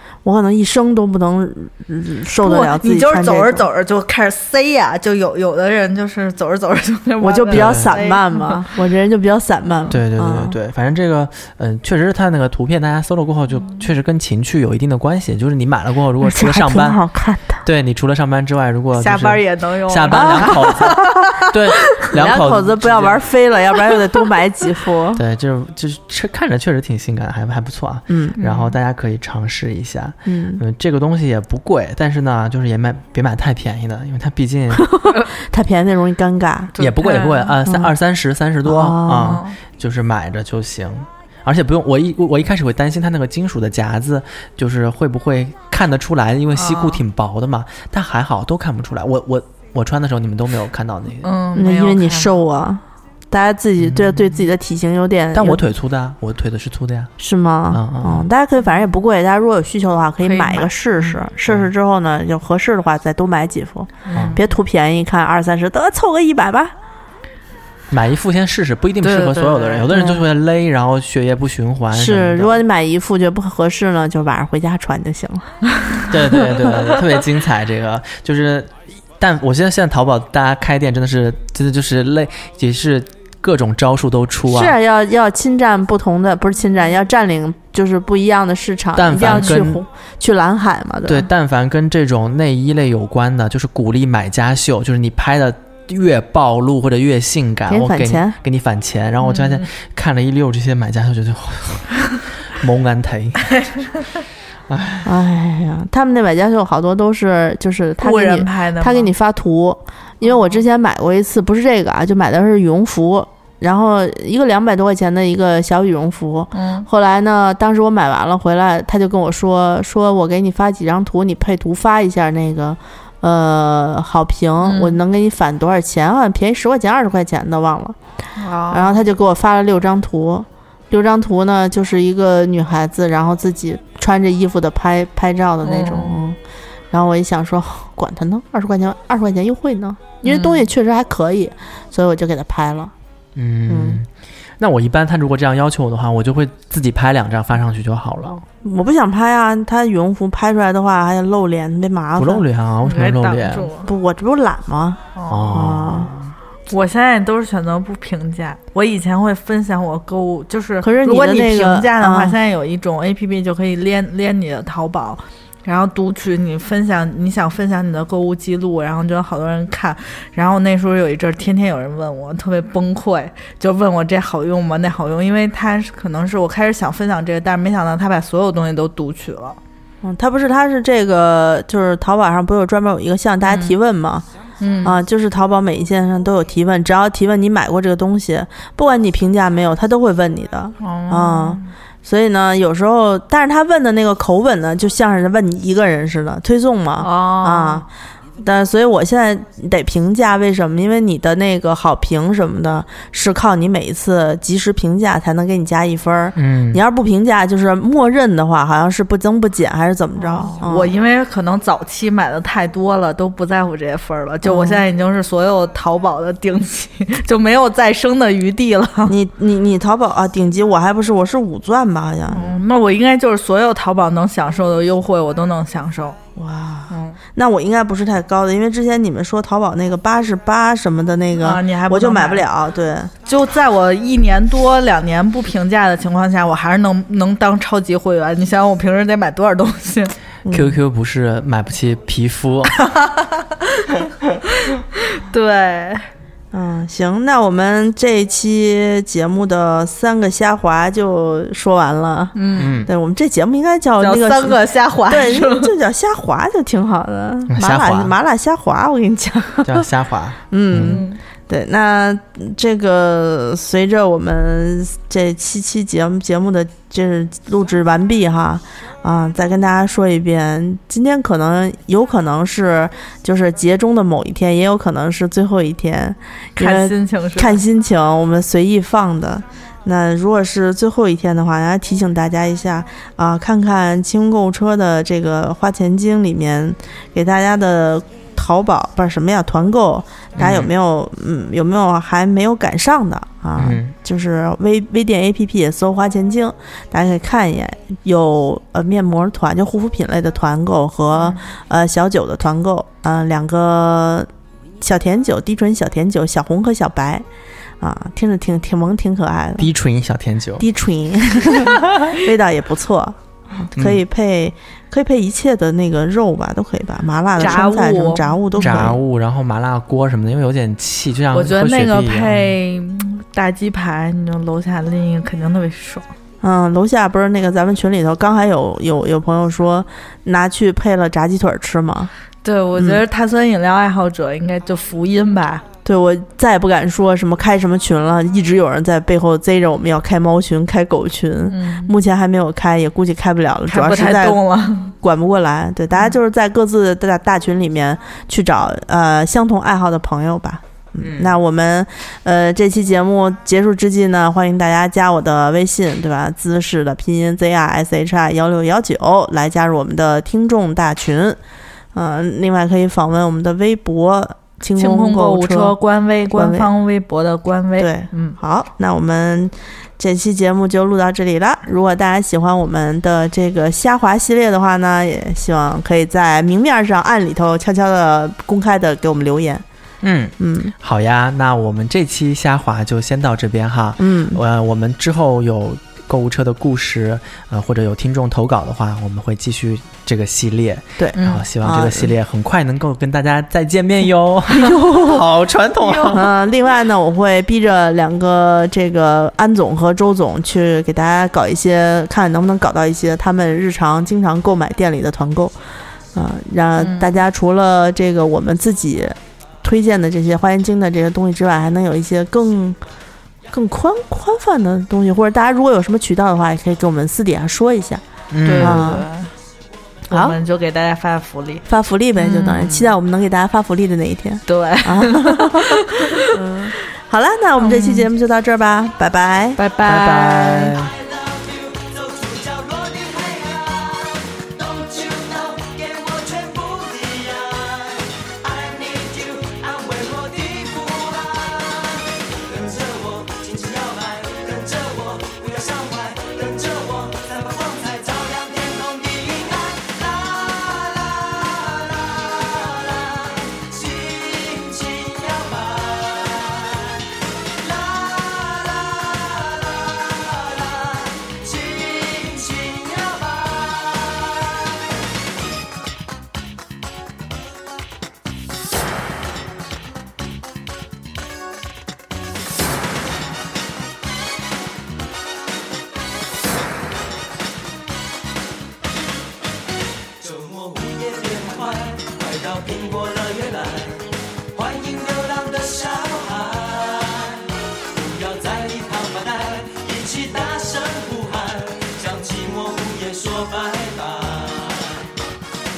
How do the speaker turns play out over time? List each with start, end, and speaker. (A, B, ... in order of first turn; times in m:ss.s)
0:00.2-0:03.7 A
0:02.4-0:08.7 B
0:07.2-0:10.6 A
0:07.5-0:08.0 C
0:09.9-0:17.0 C
0:16.2-0:17.6 A
0:17.6-0:23.2 C
0:19.0-0:21.6 B
0:20.1-0:21.1 A
0:22.0-0:25.2 A
0:25.2-0:34.9 C
0:28.1-0:28.4 A
0:28.4-0:28.8 B
0:30.2-0:30.6 A
0:35.3-0:36.8 A
0:36.8-0:51.3 C
0:36.8-0:37.6 B
0:37.6-0:37.9 A
0:38.6-0:39.4 A
0:39.2-0:39.6 B
0:46.6-0:47.0 B
0:51.2-0:52.4 B
0:51.6-0:55.6 A
0:53.8-0:54.2 C
0:55.3-0:57.1 C
0:57.2-1:06.7 A
0:57.7-0:58.3 C
1:00.2-1:01.2 B
1:04.1-1:04.4 B
1:04.1-1:04.4 C
1:07.9-1:12.6 C
1:09.0-1:09.9 B
1:09.9-1:10.2 A
1:11.9-1:15.6 A
1:16.1-1:24.8 C
1:24.5-1:31.3 A
1:29.0-1:29.8 C
1:31.1-1:43.7 C
1:37.7-1:38.4 A
1:39.2-1:39.6 B
1:44.7-1:45.1 C
1:45.0-2:08.0 A
1:48.0-1:49.1 B
1:50.2-1:50.6 B
1:56.5-1:56.9 B
2:04.6-2:05.0 B
2:08.4-2:09.0 B
2:08.7-2:16.4 A
2:15.6-2:16.2 B
2:16.9-2:22.9 A
2:20.2-2:20.6 B
2:23.4-2:24.1 C
2:23.7-2:24.0 A
2:24.6-2:28.4 C
2:28.6-2:32.4 A
2:32.2-2:33.7 C
2:32.8-2:33.9 B
2:33.8-2:36.1 A
2:35.2-2:35.5 B
2:35.3-2:36.3 C
2:36.7-2:59.6 B
2:40.8-2:42.4 A
3:00.0-3:04.3 A
3:03.5-3:03.7 B
3:04.6-3:05.0 B
3:04.8-3:17.9 A
3:10.8-3:11.7 B
3:17.0-3:17.8 B
3:18.4-3:30.9 A
3:26.4-3:26.8 C
3:30.2-3:39.2 B
3:34.4-3:34.8 A
3:39.1-3:42.6 A
3:42.3-3:46.2 B
3:46.4-3:53.1 A
3:46.9-3:47.2 B
3:51.4-3:52.4 B
3:53.3-4:00.2 B
4:00.4-4:00.8 A
4:00.5-4:02.8 C
4:02.8-4:03.9 B
4:04.6-4:06.1 B
4:06.5-4:19.9 A
4:12.4-4:12.8 B
4:12.6-4:12.9 C
4:14.0-4:15.8 B
4:17.5-4:18.1 C
4:19.6-4:21.0 C
4:20.5-5:04.3 A
4:20.8-4:21.2 B
4:36.6-4:37.6 B
4:50.4-4:50.7 C
4:53.6-4:53.9 C
5:04.8-5:07.2 A
5:07.8-5:09.7 A
5:09.6-5:10.6 C
5:10.6-5:19.0 A
5:13.8-5:14.0 C
5:17.4-5:18.9 B
5:18.6-5:22.5 C
5:21.3-5:26.1 B
5:26.4-5:32.1 A
5:32.4-5:35.6 B
5:32.8-5:33.0 A
5:35.8-5:44.4 A
5:41.5-5:41.9 B
5:43.7-5:45.0 B
5:45.0-6:01.4 A
5:51.0-5:51.3 C
6:01.9-6:05.8 A
6:04.8-6:08.4 B
6:06.3-6:06.7 A
6:07.8-6:19.6 A
6:20.0-6:36.3 C
6:20.4-6:20.7 A
6:24.0-6:24.4 A
6:31.0-6:32.1 A
6:31.2-6:31.5 B
6:34.5-6:35.3 A
6:35.9-6:36.2 B
6:36.0-6:45.6 A
6:46.1-6:52.8 A
6:46.8-6:47.1 B
6:53.5-6:58.0 A
6:58.3-6:58.9 C
6:58.4-6:59.3 B
6:58.6-6:59.1 A
7:00.1-7:01.7 B
7:00.1-7:00.4 A
7:01.7-7:09.6 A
7:02.2-7:03.0 B
7:04.5-7:06.7 B
7:07.6-7:08.1 B
7:09.6-7:10.8 B
7:09.8-7:10.9 C
7:10.7-7:44.9 D
8:00.2-8:15.1 D